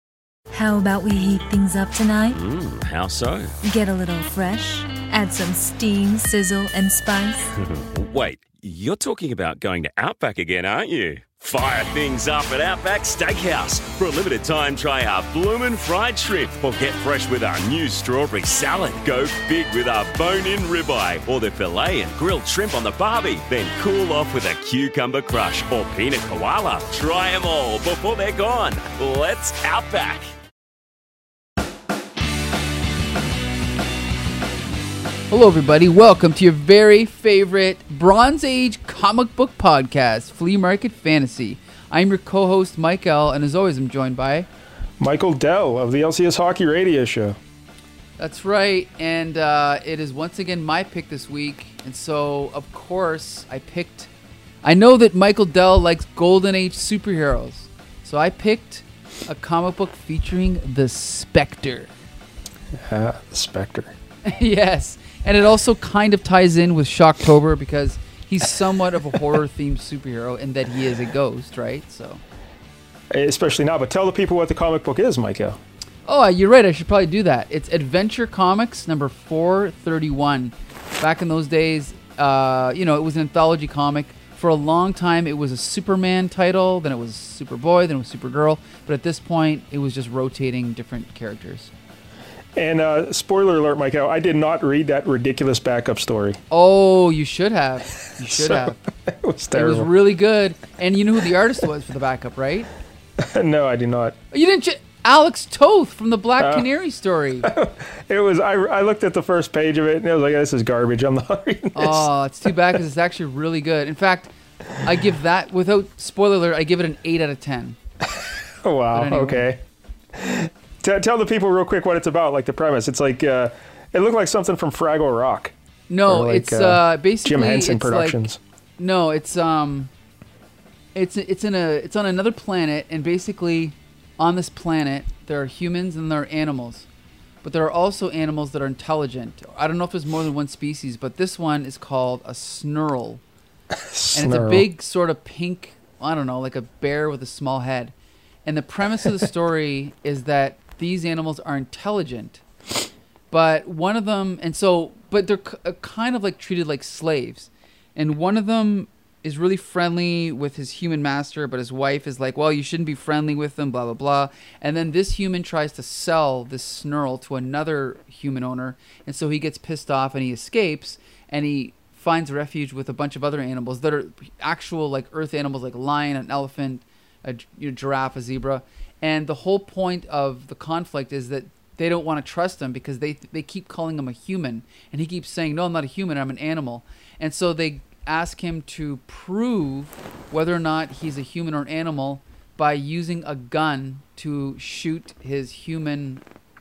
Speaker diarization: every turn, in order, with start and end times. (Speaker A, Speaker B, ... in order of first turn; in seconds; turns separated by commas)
Speaker A: 0.5-2.4, Speaker B: 2.3-3.5, Speaker A: 3.6-7.5, Speaker B: 7.6-30.3, Speaker C: 35.3-44.5, Speaker D: 45.0-47.4, Speaker C: 48.2-54.1, Speaker C: 54.6-61.9, Speaker D: 62.8-63.9, Speaker C: 64.2-72.2, Speaker D: 73.1-75.6, Speaker C: 76.0-91.7, Speaker D: 92.5-96.4, Speaker C: 96.5-98.8, Speaker D: 98.3-99.9, Speaker C: 99.5-102.7, Speaker D: 103.2-104.2, Speaker C: 104.3-107.5, Speaker D: 106.4-106.7, Speaker D: 107.4-112.8, Speaker C: 111.7-117.8, Speaker D: 118.0-119.6, Speaker C: 118.9-119.5, Speaker D: 120.1-125.5, Speaker C: 125.9-128.2, Speaker D: 126.0-128.4, Speaker C: 128.8-129.9, Speaker C: 130.9-136.9, Speaker C: 137.4-143.2, Speaker D: 143.7-144.7, Speaker C: 144.1-147.9, Speaker C: 148.4-152.4, Speaker C: 153.3-196.2